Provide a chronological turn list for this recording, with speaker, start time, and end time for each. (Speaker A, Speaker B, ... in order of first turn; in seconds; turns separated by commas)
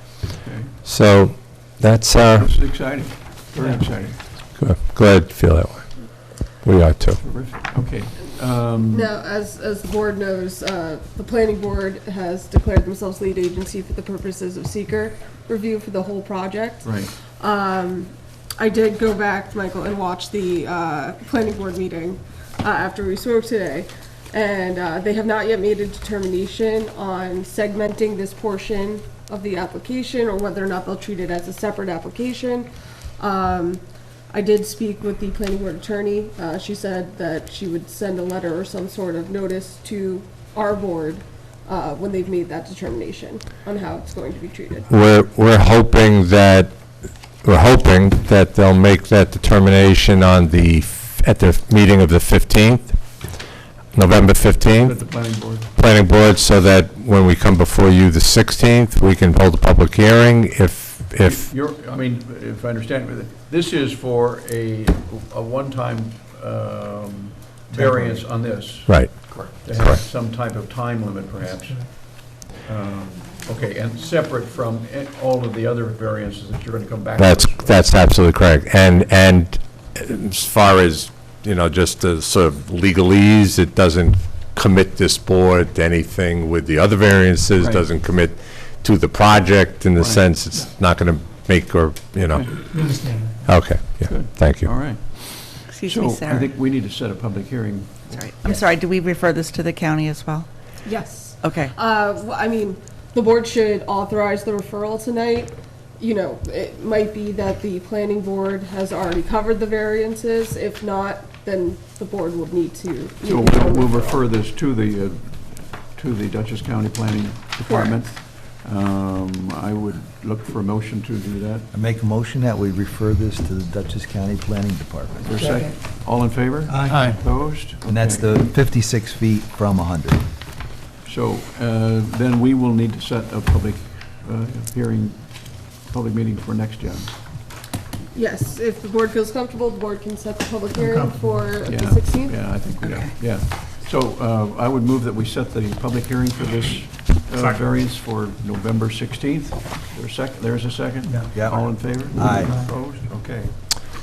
Speaker A: 0.8-2.5, Speaker B: 3.2-4.2, Speaker C: 3.5-3.9, Speaker A: 4.6-7.2, Speaker B: 7.2-9.1, Speaker D: 8.8-44.9, Speaker B: 16.8-17.1, Speaker A: 44.9-46.7, Speaker A: 47.4-53.3, Speaker A: 53.9-61.5, Speaker B: 54.8-55.7, Speaker B: 61.2-77.9, Speaker A: 68.9-70.0, Speaker C: 71.4-71.9, Speaker A: 77.2-92.8, Speaker B: 90.0-90.3, Speaker C: 92.6-93.7, Speaker A: 93.4-94.7, Speaker B: 94.6-98.2, Speaker E: 95.7-96.6, Speaker E: 98.1-101.7, Speaker D: 100.8-114.3, Speaker B: 113.2-121.7, Speaker D: 117.6-118.3, Speaker F: 121.7-125.4, Speaker B: 125.2-128.4, Speaker C: 125.4-127.2, Speaker F: 127.8-130.2, Speaker B: 131.0-137.2, Speaker D: 138.1-142.8, Speaker C: 140.7-141.6, Speaker B: 141.6-153.6, Speaker E: 142.8-143.8, Speaker C: 151.0-153.0, Speaker F: 151.3-152.6